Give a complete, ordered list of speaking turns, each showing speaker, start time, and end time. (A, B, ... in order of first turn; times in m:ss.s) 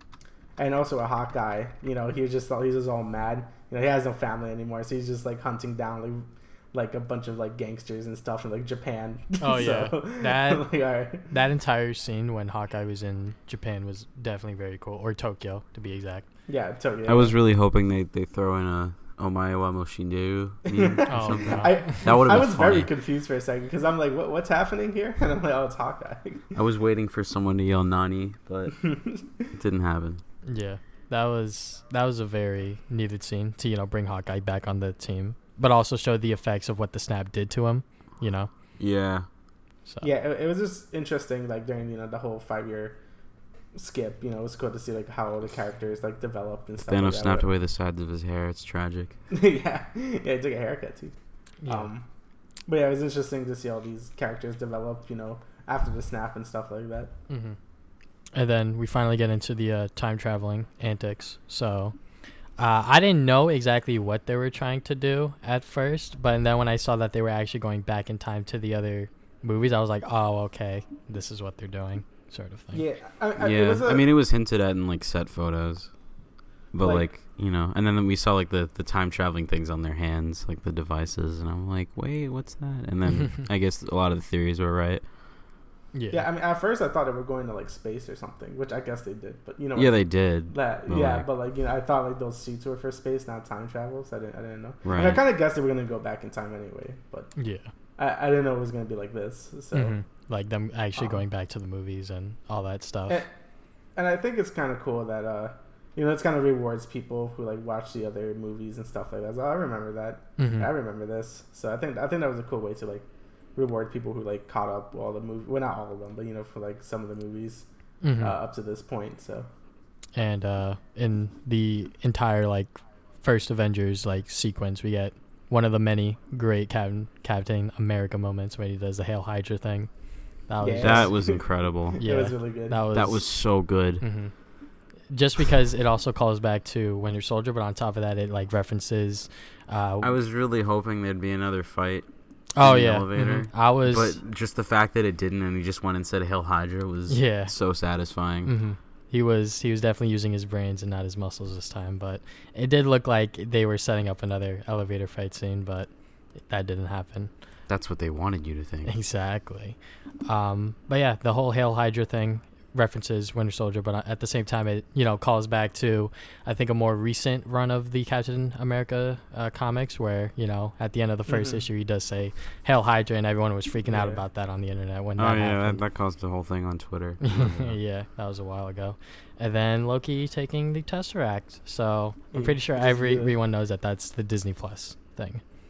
0:00.6-0:11.3 A
0:09.4-0:10.7 B
0:11.3-0:16.3 B
0:16.5-0:17.4 A
0:17.1-0:22.9 C
0:20.7-0:26.5 A
0:21.1-0:22.1 B
0:26.5-0:30.2 C
0:28.8-0:29.4 A
0:30.4-0:38.5 B
0:38.8-0:39.3 C
0:40.0-0:43.0 A
0:43.7-0:47.5 A
0:46.9-0:49.2 C
0:49.3-0:51.2 A
0:51.6-0:51.9 B
0:51.7-0:52.1 A
0:52.7-0:57.1 A
0:57.3-0:57.6 B
0:58.3-1:12.8 B
1:12.7-1:14.1 A
1:13.4-1:16.0 C
1:16.7-1:25.1 C
1:16.8-1:17.1 A
1:25.9-1:26.2 B
1:26.1-1:37.4 A
1:29.8-1:31.3 C
1:34.8-1:35.2 C
1:37.4-1:37.7 B
1:38.0-1:40.0 A
1:39.7-1:43.2 B
1:41.0-1:41.2 A
1:44.0-1:57.7 A
1:50.4-1:50.7 B
1:58.0-1:58.4 B
1:58.2-1:59.5 A
2:00.2-2:11.2 B
2:10.6-2:12.9 A
2:10.8-2:12.0 C
2:12.0-2:13.3 B
2:12.9-2:14.0 C
2:14.0-2:14.5 B
2:15.1-2:20.1 B
2:20.0-2:22.1 C
2:22.6-2:24.2 B
2:22.6-2:28.5 C
2:27.1-2:27.5 B
2:28.4-2:37.3 B
2:37.7-2:39.0 C
2:38.9-2:55.8 B
2:51.3-2:51.6 A
2:53.9-2:54.2 A
2:55.2-2:57.8 C
2:57.2-3:05.4 B
3:02.3-3:03.3 A